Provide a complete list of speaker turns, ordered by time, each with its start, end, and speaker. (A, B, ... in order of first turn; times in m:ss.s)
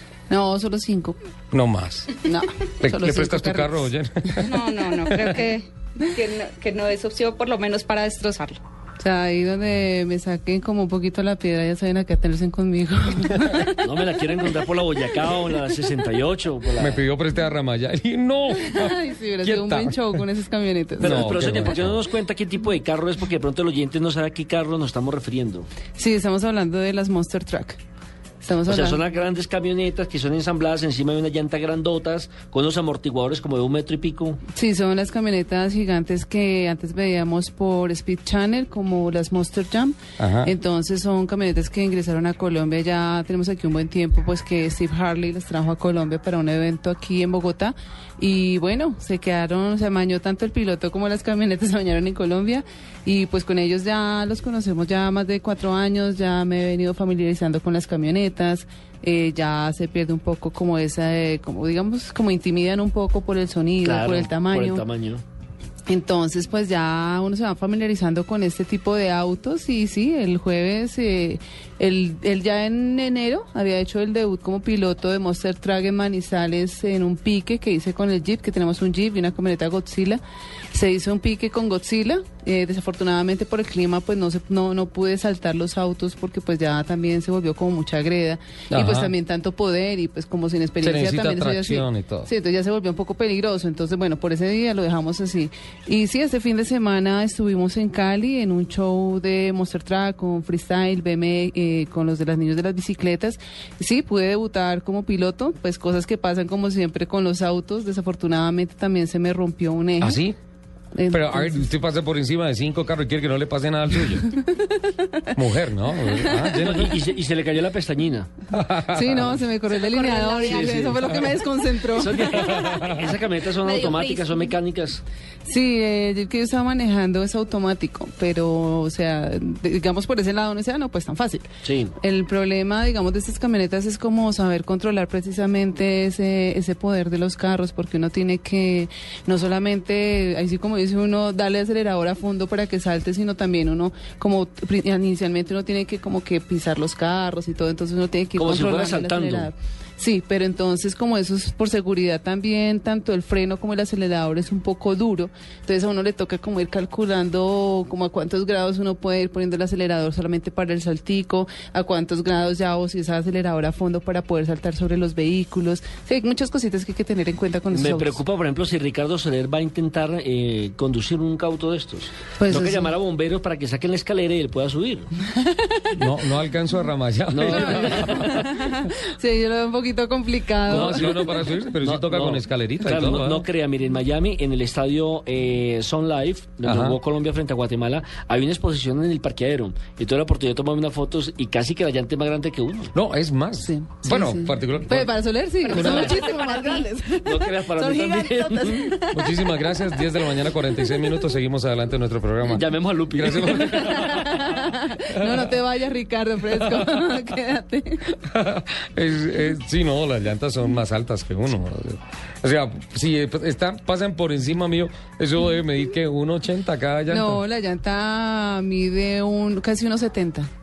0:00.3-0:01.2 A
0:01.5-0:02.2 B
0:02.2-0:04.4 A
0:02.8-0:04.6 B
0:04.4-0:08.6 C
0:09.0-0:13.9 A
0:13.8-0:17.0 D
0:16.8-0:20.2 B
0:18.5-0:21.6 A
0:21.0-0:22.0 B
0:21.0-0:25.7 D
0:26.0-0:27.8 A
0:28.4-0:29.0 A
0:28.7-0:34.4 D
0:34.5-1:04.8 A
0:40.2-0:40.5 B
1:03.8-1:05.2 D
1:05.9-1:20.2 A
1:20.7-1:50.2 A
1:28.7-1:29.1 B
1:30.8-1:32.3 B
1:50.0-1:50.4 B
1:50.9-1:51.7 A
1:51.1-1:54.3 B
1:54.4-1:55.2 A
1:55.4-1:56.9 B
1:56.0-1:56.9 A
1:56.6-1:58.3 D
1:58.5-1:59.4 B
1:58.9-2:02.8 A
1:59.7-2:01.2 C
2:00.5-2:01.0 D
2:01.9-2:05.0 D
2:02.4-2:02.9 B
2:03.0-2:04.5 C
2:05.5-2:11.5 A
2:11.6-2:12.0 D
2:12.0-2:48.2 A
2:28.4-2:29.5 D
2:47.7-2:55.1 D
2:52.4-2:52.9 A
2:55.4-2:56.0 A
2:56.0-2:58.4 B
2:57.3-2:58.5 D
2:57.5-3:01.3 A
3:00.7-3:12.9 D
3:00.7-3:03.4 B
3:06.6-3:07.0 B
3:12.9-3:15.2 B
3:13.6-3:21.2 A
3:15.6-3:16.9 C
3:15.7-3:16.2 B
3:17.2-3:18.9 D
3:19.1-3:24.5 B
3:22.4-3:24.1 D
3:23.6-3:28.2 A
3:28.3-3:37.4 B
3:37.1-3:40.5 A